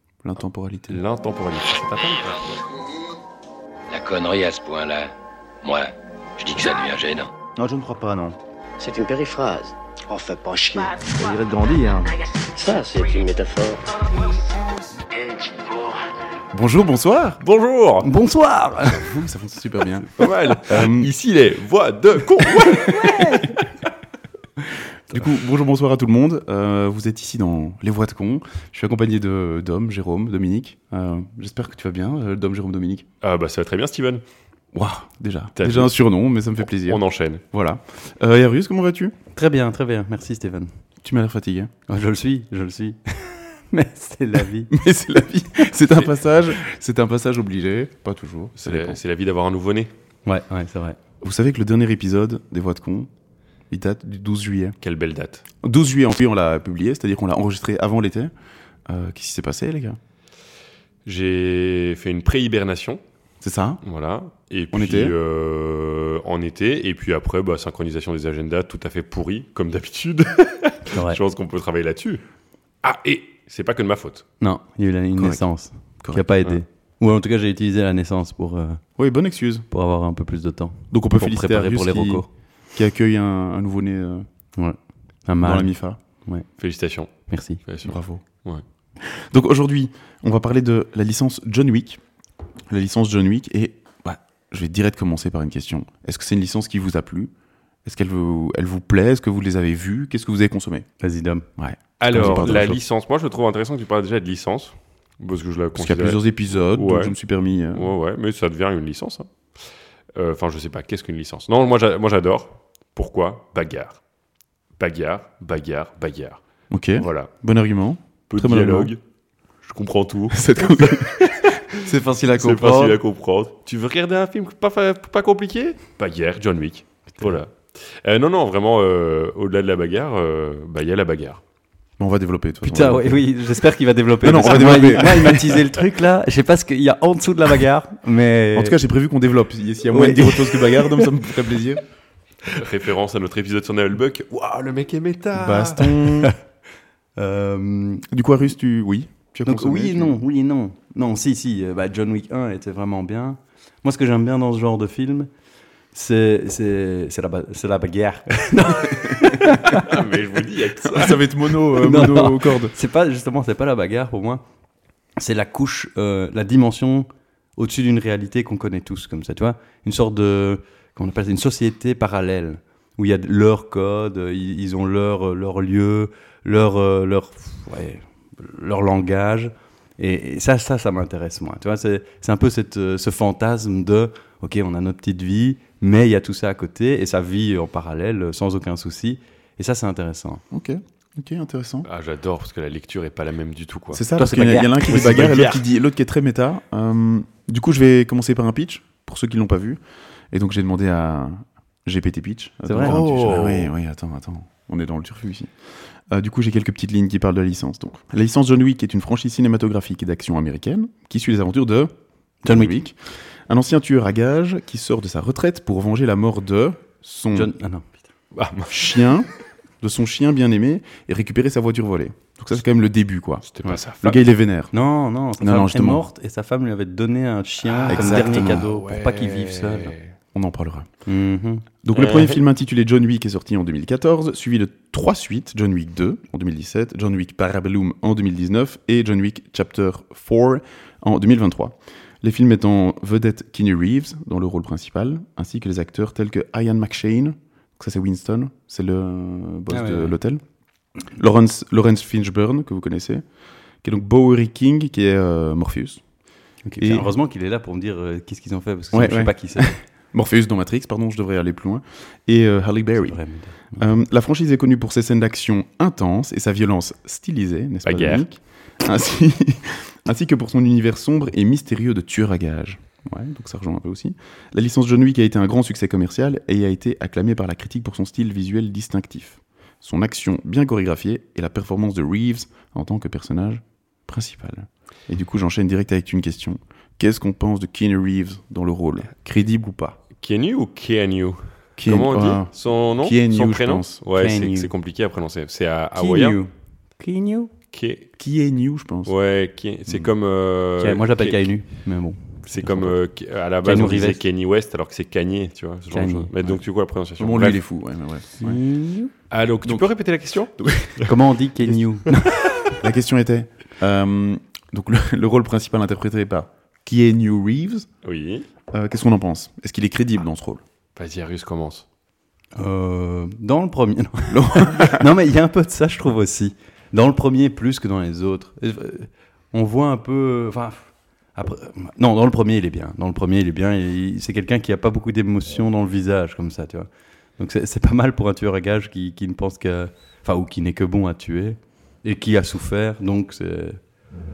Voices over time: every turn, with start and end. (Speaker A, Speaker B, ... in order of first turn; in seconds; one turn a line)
Speaker A: 0.2-1.0
Speaker B: 0.9-2.6
Speaker C: 3.9-7.3
Speaker D: 7.5-8.3
Speaker E: 8.8-11.0
Speaker D: 11.0-12.1
Speaker E: 12.5-14.3
Speaker E: 15.1-16.0
Speaker A: 16.5-17.4
Speaker B: 17.4-18.1
Speaker F: 18.0-19.3
Speaker A: 18.9-21.1
Speaker B: 20.1-23.3
Speaker A: 22.6-23.6
Speaker F: 23.1-23.5
Speaker A: 25.1-33.0
Speaker B: 33.2-34.2
Speaker A: 34.7-39.1
Speaker B: 35.6-35.9
Speaker B: 36.8-37.4
Speaker F: 39.3-40.7
Speaker A: 41.0-41.7
Speaker F: 41.9-44.7
Speaker A: 44.7-49.0
Speaker B: 48.5-49.9
Speaker F: 50.2-51.0
Speaker A: 51.2-53.1
Speaker A: 53.7-54.8
Speaker B: 54.8-55.4
Speaker A: 55.6-58.3
Speaker A: 58.9-60.0
Speaker B: 61.0-63.0
Speaker A: 63.4-63.8
Speaker B: 63.8-72.2
Speaker A: 64.7-65.1
Speaker B: 72.8-74.2
Speaker F: 74.4-78.8
Speaker A: 75.2-75.4
Speaker A: 79.0-79.7
Speaker F: 79.7-82.3
Speaker A: 80.9-84.3
Speaker F: 84.5-85.7
Speaker A: 85.4-86.0
Speaker B: 86.6-88.6
Speaker F: 87.3-87.6
Speaker A: 87.8-88.2
Speaker A: 89.0-92.0
Speaker A: 92.7-97.3
Speaker A: 97.8-100.8
Speaker F: 101.0-101.4
Speaker A: 101.6-102.8
Speaker B: 102.0-106.2
Speaker A: 105.7-107.9
Speaker B: 106.7-107.1
Speaker B: 107.7-109.3
Speaker B: 110.2-114.0
Speaker B: 114.8-116.4
Speaker A: 116.7-118.9
Speaker B: 117.0-117.3
Speaker B: 118.3-119.0
Speaker B: 119.6-121.8
Speaker A: 120.3-123.0
Speaker B: 122.3-131.4
Speaker A: 132.0-133.2
Speaker F: 132.6-138.8
Speaker A: 134.2-135.7
Speaker A: 138.5-141.8
Speaker F: 139.9-141.2
Speaker B: 142.5-145.9
Speaker A: 145.3-146.3
Speaker F: 145.9-146.4
Speaker F: 147.2-148.1
Speaker A: 148.1-150.2
Speaker F: 149.4-155.3
Speaker F: 155.9-160.0
Speaker A: 158.9-159.6
Speaker B: 159.7-161.2
Speaker A: 160.9-162.7
Speaker F: 161.6-164.4
Speaker F: 165.2-190.4
Speaker A: 190.5-191.9
Speaker B: 191.8-194.1
Speaker A: 193.9-199.8
Speaker F: 194.2-195.6
Speaker B: 194.8-195.6
Speaker A: 200.3-205.5
Speaker F: 202.7-203.1
Speaker B: 202.8-203.7
Speaker A: 206.1-211.9
Speaker F: 212.4-212.8
Speaker A: 212.4-212.9
Speaker A: 213.5-217.5
Speaker F: 217.3-217.9
Speaker B: 218.3-219.0
Speaker A: 218.7-219.3
Speaker A: 219.8-223.4
Speaker B: 223.5-224.2
Speaker A: 224.0-224.7
Speaker F: 224.7-229.9
Speaker A: 225.4-226.0
Speaker B: 227.6-230.0
Speaker A: 227.9-228.7
Speaker A: 230.3-230.9
Speaker F: 231.1-231.7
Speaker A: 231.8-250.4
Speaker B: 231.9-232.4
Speaker F: 249.7-250.2
Speaker A: 251.1-253.2
Speaker A: 253.8-256.0
Speaker F: 256.6-259.8
Speaker A: 256.8-257.1
Speaker A: 258.9-263.2
Speaker F: 263.0-263.9
Speaker A: 263.8-290.0
Speaker B: 267.8-268.2
Speaker B: 290.2-296.4
Speaker A: 291.8-294.0
Speaker F: 294.1-294.7
Speaker F: 295.9-297.5
Speaker B: 297.7-298.1
Speaker A: 298.2-299.1
Speaker B: 299.1-301.4
Speaker F: 300.8-303.0
Speaker B: 302.4-307.6
Speaker F: 303.6-304.2
Speaker F: 305.9-306.3
Speaker A: 307.2-308.6
Speaker F: 308.4-309.1
Speaker B: 309.3-311.1
Speaker A: 310.6-311.8
Speaker F: 311.0-312.8
Speaker A: 312.8-317.9
Speaker B: 318.0-318.5
Speaker A: 318.7-320.6
Speaker B: 320.9-321.9
Speaker F: 322.5-343.8
Speaker A: 324.3-325.1